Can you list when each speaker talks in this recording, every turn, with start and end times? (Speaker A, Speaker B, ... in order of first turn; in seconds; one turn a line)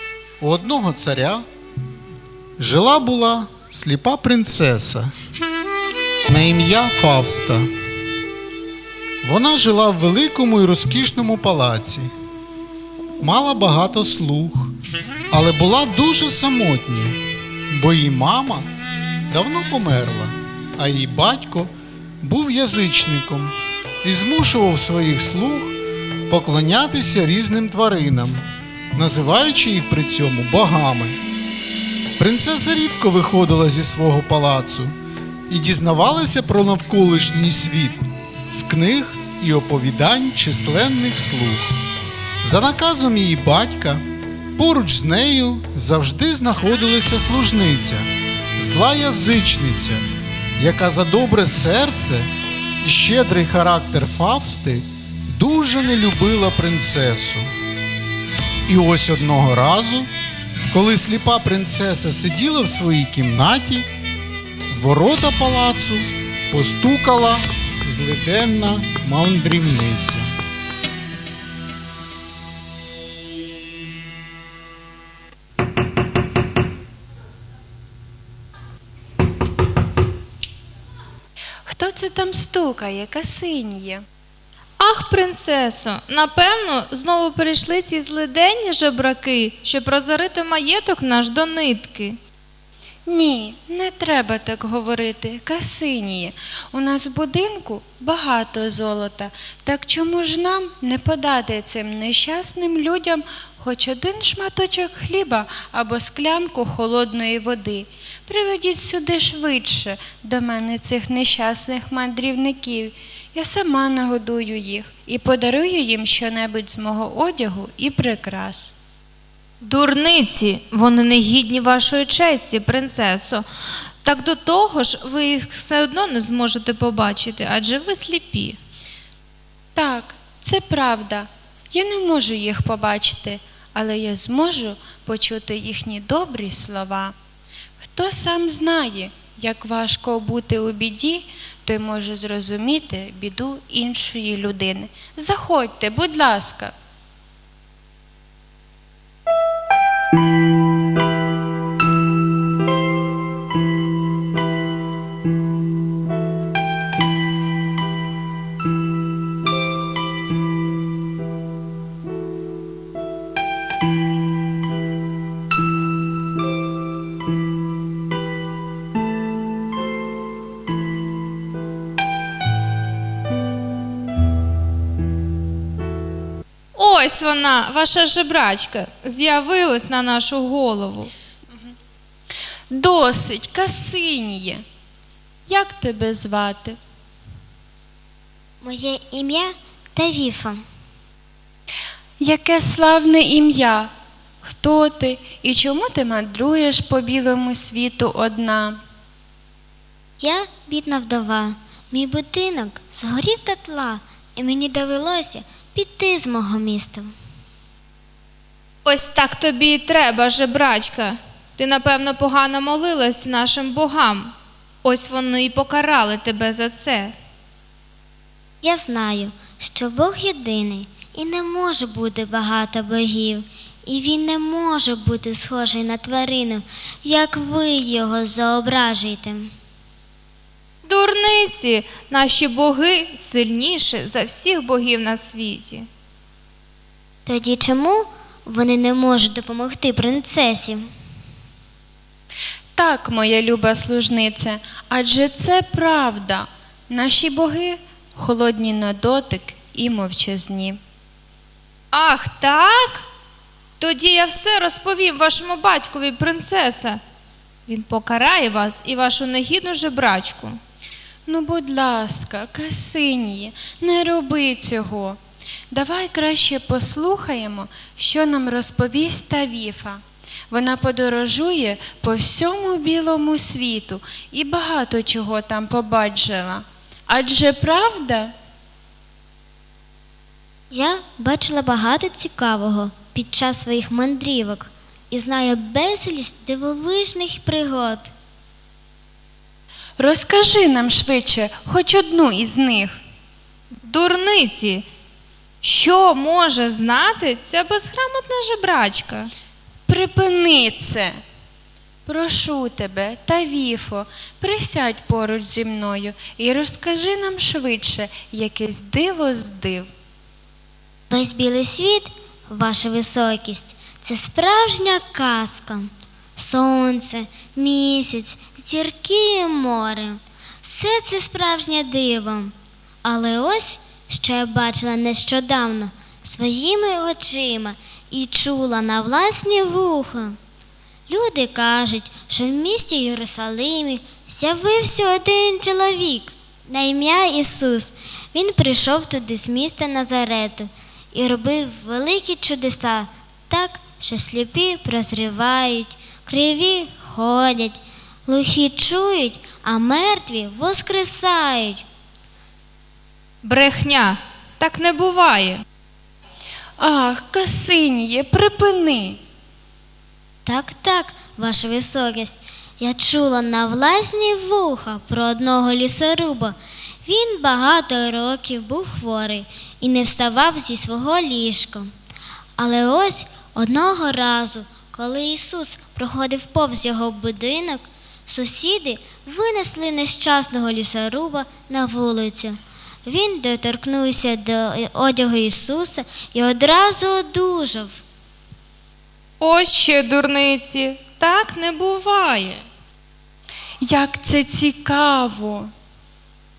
Speaker A: 0.4-1.4
Speaker A: 2.6-5.1
Speaker A: 6.3-7.7
Speaker A: 9.2-12.1
Speaker A: 13.2-14.7
Speaker A: 15.3-17.2
Speaker A: 17.7-18.7
Speaker A: 19.3-25.8
Speaker A: 26.3-28.4
Speaker A: 28.9-31.2
Speaker A: 32.2-35.0
Speaker A: 35.5-41.6
Speaker A: 42.4-44.0
Speaker A: 44.6-50.0
Speaker A: 50.6-52.3
Speaker A: 52.8-57.5
Speaker A: 58.7-60.1
Speaker A: 60.7-63.9
Speaker A: 64.7-70.3
Speaker B: 81.7-84.0
Speaker C: 84.8-92.2
Speaker B: 93.1-118.7
Speaker C: 119.6-123.5
Speaker C: 124.0-128.6
Speaker B: 129.8-137.2
Speaker B: 137.8-146.7
Speaker C: 176.8-181.1
Speaker B: 182.7-184.6
Speaker B: 185.5-186.8
Speaker D: 188.6-190.6
Speaker B: 192.2-193.9
Speaker B: 194.4-198.8
Speaker D: 200.2-207.1
Speaker C: 208.8-214.3
Speaker C: 214.8-217.2
Speaker D: 218.6-229.5
Speaker C: 230.8-235.9
Speaker D: 237.3-240.9
Speaker B: 242.8-250.8
Speaker C: 251.9-253.1
Speaker C: 253.8-257.0
Speaker C: 257.7-260.6
Speaker B: 261.3-265.2
Speaker B: 265.7-278.3
Speaker D: 280.7-288.1
Speaker B: 290.0-292.9
Speaker C: 293.8-294.9
Speaker C: 295.6-299.3
Speaker B: 299.9-301.1
Speaker B: 302.1-309.9
Speaker D: 311.1-330.4
Speaker D: 331.1-351.8
Speaker C: 353.4-355.6
Speaker B: 356.8-359.2
Speaker D: 360.5-371.9
Speaker D: 372.6-388.0
Speaker C: 389.4-392.6
Speaker B: 393.8-395.7